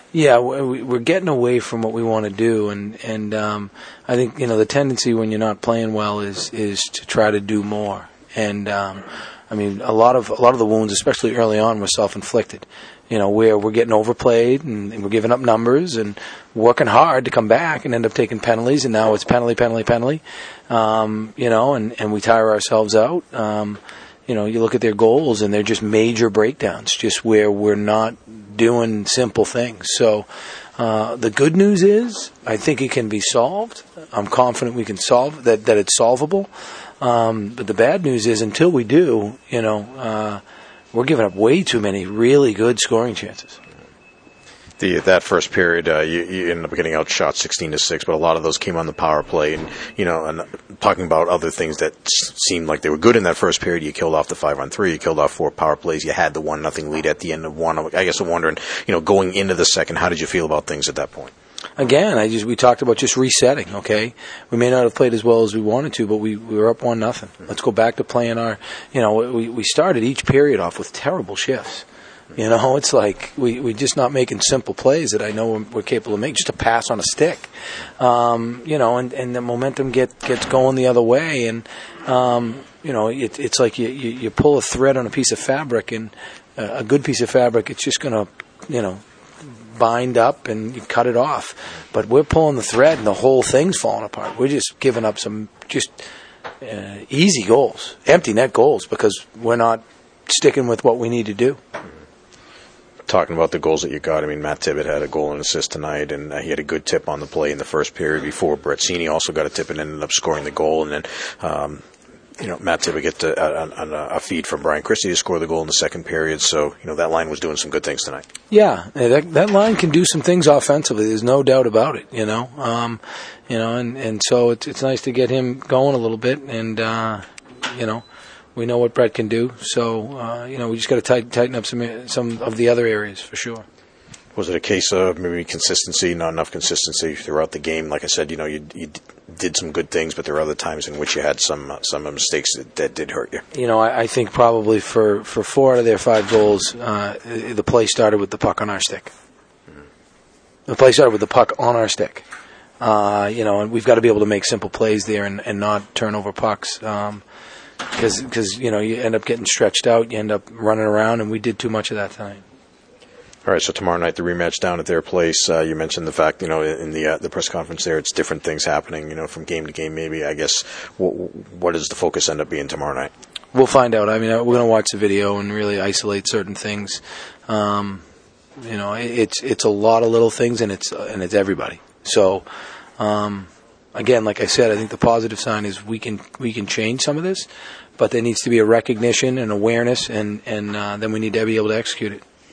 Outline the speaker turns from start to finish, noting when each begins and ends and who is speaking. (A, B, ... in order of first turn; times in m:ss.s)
0:00.1-0:40.4 A
0:40.9-0:43.6 A
0:44.8-1:01.3 B
1:01.8-1:36.0 A
1:36.6-1:41.6 A
1:43.1-1:51.8 B
1:52.4-1:58.3 B
1:58.5-2:08.0 A
2:08.6-2:13.7 A
2:14.4-2:23.4 B
2:23.5-2:29.1 A
2:30.7-2:32.2 A
2:32.8-2:37.2 A
2:37.9-2:42.4 A
2:43.4-2:53.1 B
2:53.5-2:58.0 A
2:58.6-3:02.5 A
3:03.0-3:12.2 A